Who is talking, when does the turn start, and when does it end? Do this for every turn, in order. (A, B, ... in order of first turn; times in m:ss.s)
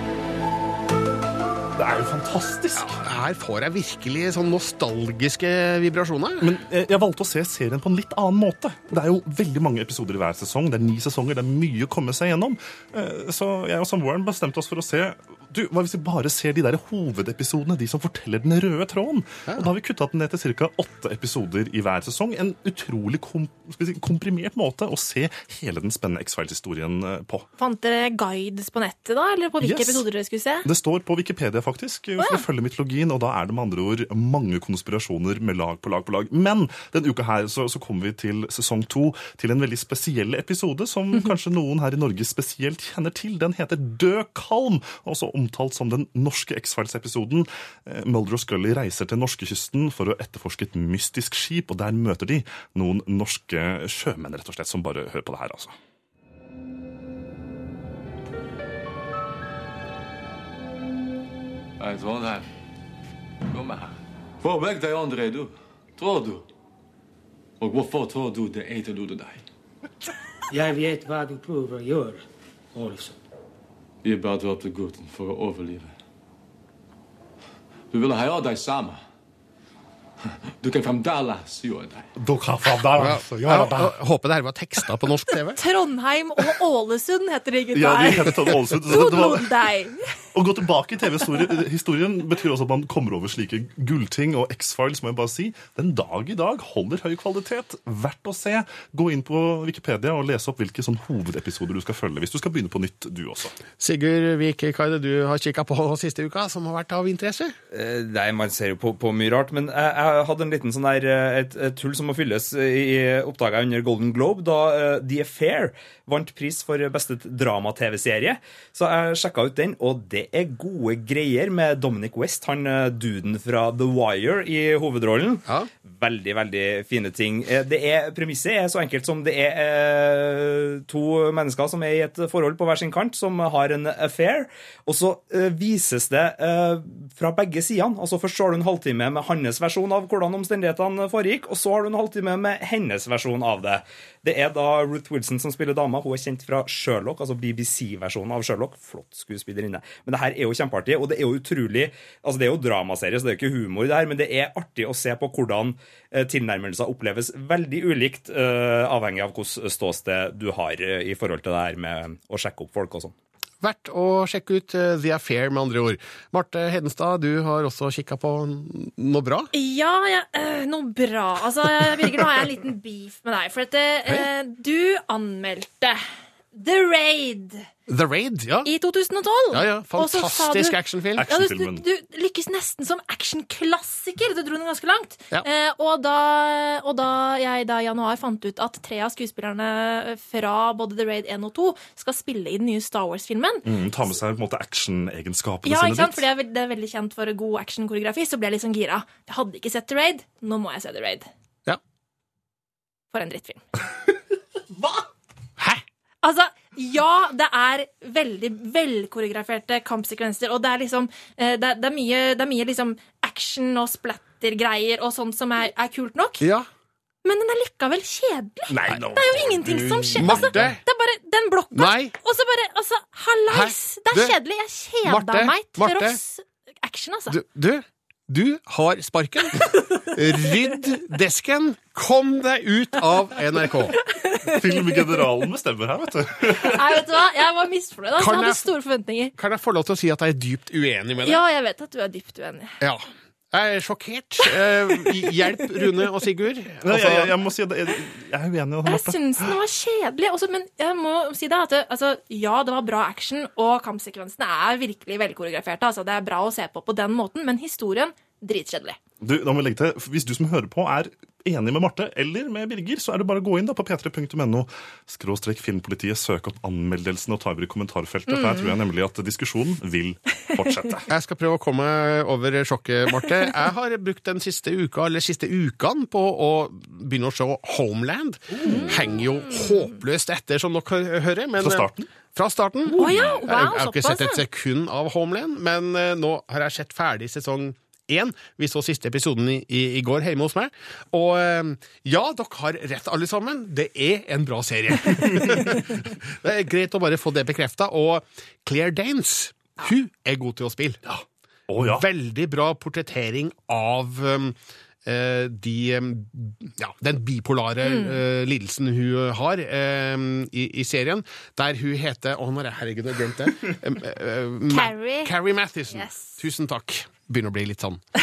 0:01.8-0:03.0 A
0:02.7-0:06.5 B
0:06.4-0:27.4 A
0:27.6-0:30.6 C
0:29.6-0:30.0 A
0:30.6-0:55.7 A
1:01.8-1:02.5 D
1:03.5-1:06.4 D
1:07.6-1:09.4 D
1:10.5-1:13.2 E
1:14.0-1:15.9 D
1:17.9-1:19.0 D
1:20.6-1:22.1 D
1:22.2-1:23.9 A
1:23.0-1:25.6 B
1:25.6-1:30.0 C
1:27.7-1:29.5 A
1:30.3-1:43.5 A
1:43.8-1:47.6 B
1:47.7-2:43.1 F
2:43.6-2:49.5 B
2:49.5-2:56.0 C
2:56.5-2:57.7 C
2:57.9-2:58.7 B
2:58.6-3:13.6 C
2:59.5-3:01.2 B
3:01.2-3:01.8 A
3:13.6-3:16.2 A
3:15.6-3:21.3 C
3:23.1-3:23.6 C
3:25.6-3:25.8 B
3:26.2-3:36.5 C
3:36.4-3:36.7 B
3:37.2-3:47.4 C
3:38.7-3:40.6 A
3:40.1-3:40.8 B
3:41.7-3:42.1 B
3:43.5-3:44.4 B
3:45.0-3:46.2 B
3:47.3-3:53.9 B
3:54.2-3:55.0 C
3:54.4-3:57.0 A
3:56.6-3:59.3 C
3:58.2-3:58.7 B
3:59.4-4:01.4 B
4:01.2-4:02.7 C
4:02.8-4:07.3 B
4:04.9-4:05.3 C
4:06.8-4:09.2 A
4:08.8-4:19.0 C
4:19.2-4:31.0 A
4:28.3-4:28.7 C
4:31.1-5:01.0 B
4:38.6-4:39.0 C
4:41.6-4:42.1 A
4:42.9-4:44.4 C
4:43.0-4:43.4 A
4:55.3-4:55.6 A
5:01.1-5:02.0 A
5:01.8-5:18.0 B
5:07.8-5:08.2 C
5:14.7-5:15.4 C
5:15.9-5:16.4 C